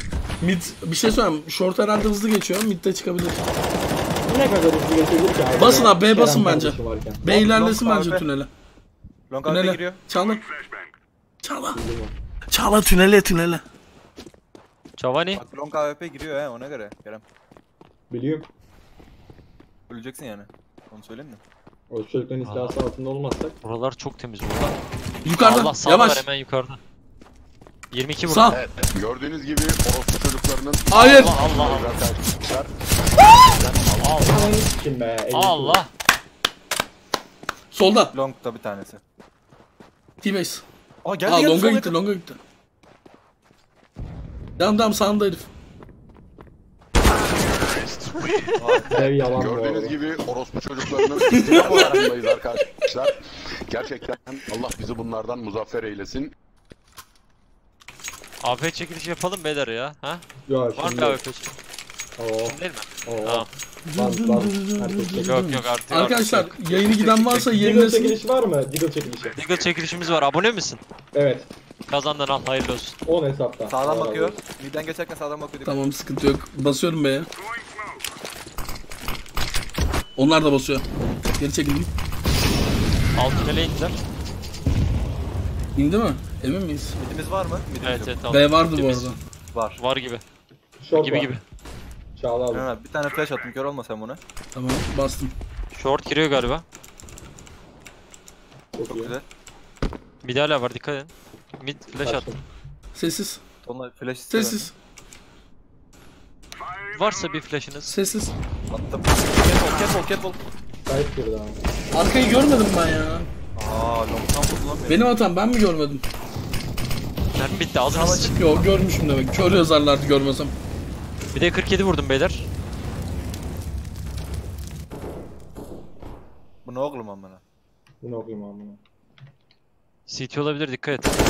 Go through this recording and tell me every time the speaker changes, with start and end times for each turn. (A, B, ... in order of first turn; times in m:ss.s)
0:00.4-0:03.4 A
0:04.3-0:07.2 B
0:05.5-0:08.5 A
0:07.2-0:08.2 C
0:09.3-0:10.0 C
0:09.4-0:10.4 A
0:11.4-0:11.8 A
0:11.7-0:12.1 B
0:12.5-0:13.6 A
0:15.0-0:15.4 D
0:15.4-0:17.2 C
0:18.1-0:18.5 B
0:19.9-0:21.4 C
0:21.9-0:23.6 B
0:22.4-0:22.8 D
0:23.6-0:24.8 D
0:25.2-0:26.2 A
0:25.4-0:26.8 D
0:27.9-0:28.6 D
0:28.3-0:28.6 A
0:28.5-0:32.7 E
0:30.9-0:31.3 A
0:30.9-0:32.0 D
0:33.5-0:34.5 D
0:34.2-0:35.8 B
0:35.3-0:35.9 D
0:37.7-0:38.1 A
0:38.1-0:39.0 C
0:40.2-0:40.6 A
0:41.0-0:42.0 C
0:41.2-0:42.4 A
0:44.6-0:45.5 A
0:48.2-0:48.5 D
0:48.6-0:49.0 C
0:48.9-0:50.0 B
0:49.1-0:56.3 E
0:51.3-0:52.0 A
0:51.5-0:52.0 C
0:58.4-1:00.2 D
1:00.5-1:01.2 B
1:00.8-1:01.5 D
1:02.2-1:05.4 B
1:02.4-1:03.5 D
1:03.8-1:08.2 A
1:05.2-1:07.4 D
1:07.5-1:09.4 B
1:09.3-1:10.8 D
1:11.1-1:11.5 B
1:11.9-1:13.0 D
1:13.0-1:14.4 B
1:13.7-1:15.8 C
1:15.6-1:17.3 A
1:20.2-1:20.8 A
1:21.4-1:21.9 A
1:23.2-1:24.0 D
1:25.7-1:27.0 A
1:27.0-1:28.2 C
1:27.8-1:29.1 D
1:28.3-1:29.2 A
1:29.5-1:29.8 C
1:29.8-1:30.2 D
1:30.8-1:31.3 B
1:30.9-1:31.4 D
1:32.2-1:32.7 B
1:32.5-1:34.2 C
1:34.5-1:35.3 A
1:35.7-1:36.6 D
1:38.7-1:39.1 B
1:38.8-1:39.2 C
1:40.2-1:42.3 D
1:42.0-1:42.4 B
1:42.9-1:43.4 A
1:43.6-1:44.7 C
1:44.3-1:44.7 A
1:46.9-1:47.9 D
1:47.8-1:48.3 A
1:48.7-1:50.4 C
1:50.8-1:51.6 B
1:51.9-1:53.3 A
1:53.6-1:55.1 C
1:54.9-1:56.0 A
1:57.3-1:58.3 D
1:57.9-1:58.4 C
1:58.2-2:00.5 A
2:01.3-2:02.5 D
2:06.6-2:07.4 C
2:08.0-2:08.8 B
2:10.1-2:11.1 D